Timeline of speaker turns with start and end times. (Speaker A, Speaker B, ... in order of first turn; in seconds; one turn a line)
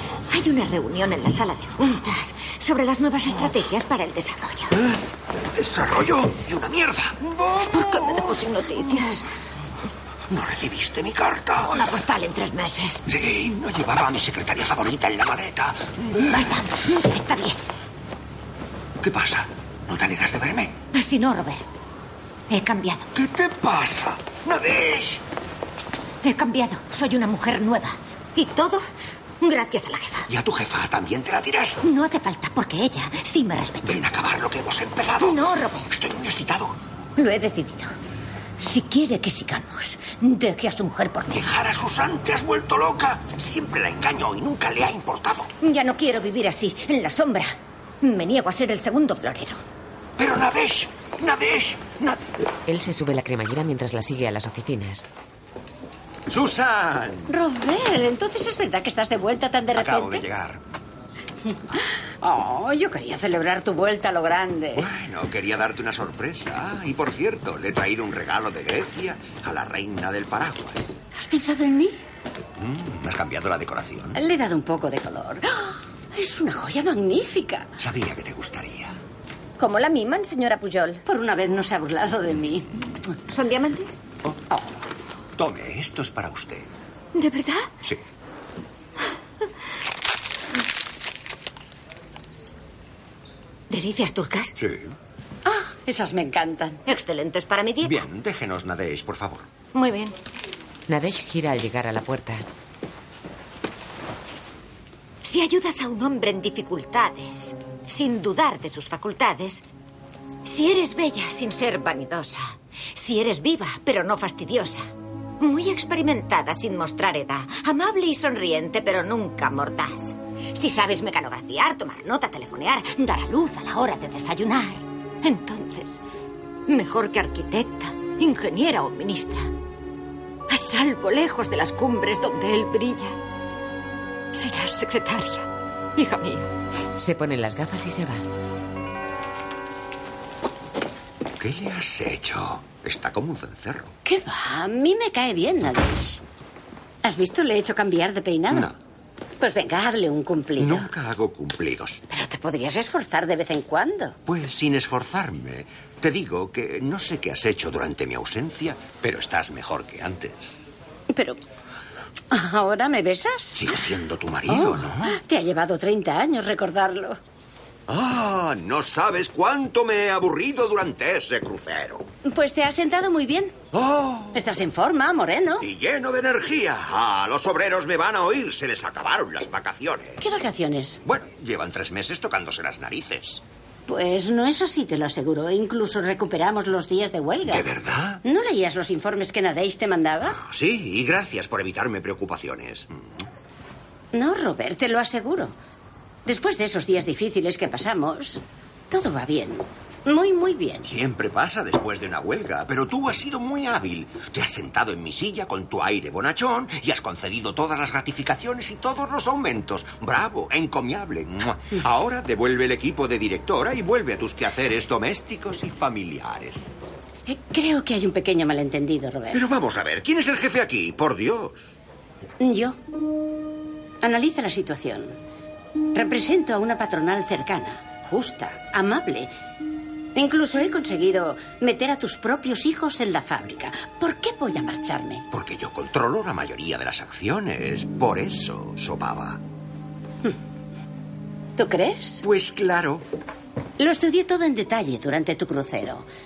Speaker A: 0.3-4.7
Speaker B: 5.5-8.3
Speaker A: 7.5-9.3
Speaker B: 10.3-11.9
Speaker A: 11.6-13.0
Speaker B: 13.1-16.6
Speaker A: 16.2-17.6
Speaker B: 19.0-20.8
Speaker A: 20.9-21.6
Speaker A: 22.5-23.1
Speaker B: 23.1-25.2
Speaker A: 26.2-28.8
Speaker A: 29.4-30.3
Speaker B: 30.3-31.8
Speaker A: 31.8-34.1
Speaker B: 33.8-36.8
Speaker A: 35.2-35.9
Speaker A: 37.2-37.9
Speaker A: 38.6-41.5
Speaker B: 41.3-45.5
Speaker A: 45.6-49.6
Speaker B: 50.2-52.3
Speaker C: 52.7-55.1
Speaker B: 56.3-57.3
Speaker D: 57.3-60.2
Speaker B: 59.7-60.6
Speaker D: 61.7-64.9
Speaker B: 64.7-70.9
Speaker D: 71.1-72.0
Speaker B: 72.6-74.2
Speaker D: 74.1-77.7
Speaker B: 77.8-79.0
Speaker A: 79.6-81.0
Speaker D: 81.1-82.7
Speaker A: 83.3-84.0
Speaker B: 85.4-86.7
Speaker A: 87.1-87.7
Speaker A: 93.7-94.6
Speaker B: 94.6-94.9
Speaker D: 95.5-96.8
Speaker A: 96.9-98.1
Speaker B: 97.8-99.5
Speaker A: 99.7-100.1
Speaker C: 100.9-102.4
Speaker A: 105.2-109.6
Speaker A: 110.5-126.0
Speaker A: 126.7-129.5
Speaker A: 130.5-133.2
Speaker A: 134.3-136.5
Speaker C: 137.0-138.3
Speaker B: 141.4-143.9
Speaker D: 144.1-146.2
Speaker D: 147.0-148.7
Speaker D: 149.4-150.9
Speaker B: 150.6-152.0
Speaker D: 152.1-154.2
Speaker B: 154.3-160.6
Speaker D: 161.1-161.4
Speaker D: 162.3-163.9
Speaker B: 163.6-165.2
Speaker D: 164.5-167.2
Speaker B: 167.9-172.1
Speaker D: 172.2-173.6
Speaker B: 173.7-174.4
Speaker D: 174.3-175.7
Speaker B: 175.6-180.3
Speaker D: 180.2-181.0
Speaker B: 181.1-183.4
Speaker D: 183.9-187.7
Speaker B: 187.5-188.2
Speaker D: 188.2-190.4
Speaker B: 190.4-193.3
Speaker D: 194.1-195.5
Speaker D: 196.3-200.9
Speaker B: 200.8-216.7
Speaker D: 217.3-219.4
Speaker B: 219.3-221.8
Speaker D: 222.4-222.8
Speaker D: 224.0-225.2
Speaker D: 225.9-229.3
Speaker D: 230.1-235.2
Speaker B: 235.3-239.4
Speaker D: 241.6-242.2
Speaker B: 242.2-243.1
Speaker D: 243.8-246.1